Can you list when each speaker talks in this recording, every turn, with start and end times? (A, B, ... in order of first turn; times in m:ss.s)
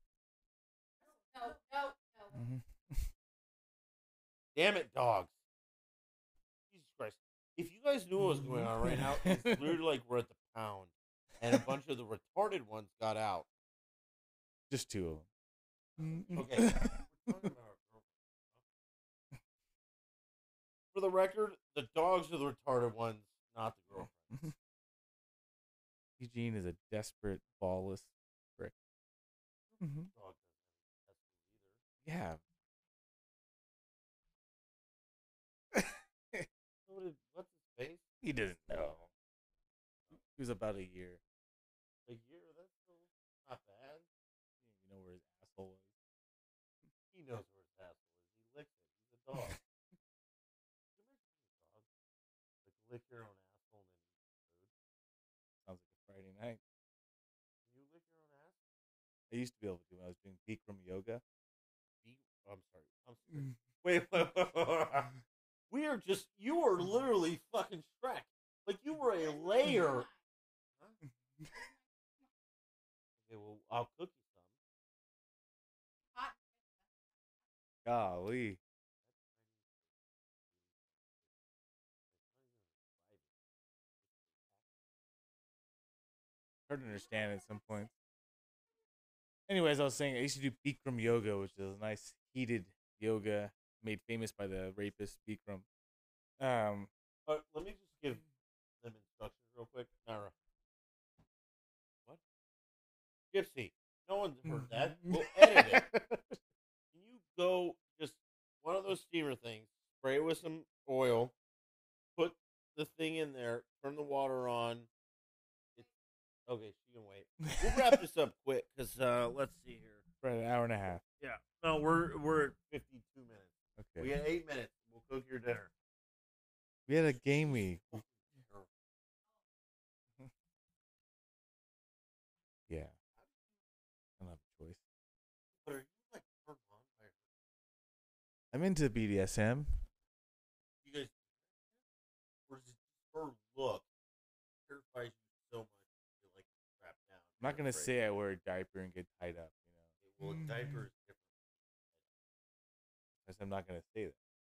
0:01.0-0:02.4 A
0:02.3-0:03.1 B
0:04.5-0:05.3 C
0:06.7-0:13.5 C
0:08.2-0:09.8 B
0:14.7-0:15.3 B
0:16.0-0:17.5 B
0:16.3-0:18.6 C
0:20.9-0:24.4 C
0:26.2-0:28.7 B
0:29.7-0:31.8 C
0:29.8-0:30.1 B
0:32.0-0:32.4 B
0:35.7-0:36.5 B
0:36.9-0:38.0 C
0:38.2-0:39.1 B
0:40.1-0:41.2 B
0:42.1-0:44.0 C
0:44.6-0:45.9 B
0:47.1-0:49.6 C
0:51.0-0:51.8 C
0:52.6-0:54.7 C
0:55.6-0:56.6 B
0:57.7-0:58.6 C
0:59.3-1:01.2 B
1:02.0-1:05.2 C
1:05.7-1:10.1 C
1:09.6-1:10.1 A
1:13.3-1:14.5 C
1:16.1-1:16.9 A
1:17.8-1:18.6 B
1:19.4-1:19.7 C
1:20.5-1:20.8 C
1:22.1-1:23.2 C
1:24.0-1:24.4 C
1:26.7-1:27.9 B
1:29.5-1:35.6 B
1:36.4-1:36.9 B
1:37.3-1:38.2 C
1:38.8-1:40.3 C
1:43.3-1:45.9 C
1:44.5-1:46.2 B
1:46.9-1:51.3 C
1:52.2-1:54.9 C
1:56.5-2:00.0 C
1:57.5-1:57.9 B
2:00.2-2:01.0 B
2:01.2-2:05.7 C
2:03.8-2:04.1 B
2:06.9-2:08.0 B
2:07.4-2:08.7 C
2:12.7-2:12.9 B
2:14.2-2:14.8 B
2:15.6-2:17.2 C
2:18.5-2:19.7 B
2:20.8-2:21.2 C
2:22.5-2:23.8 C
2:24.7-2:27.9 C
2:27.4-2:30.8 B
2:30.0-2:31.3 C
2:33.2-2:34.2 B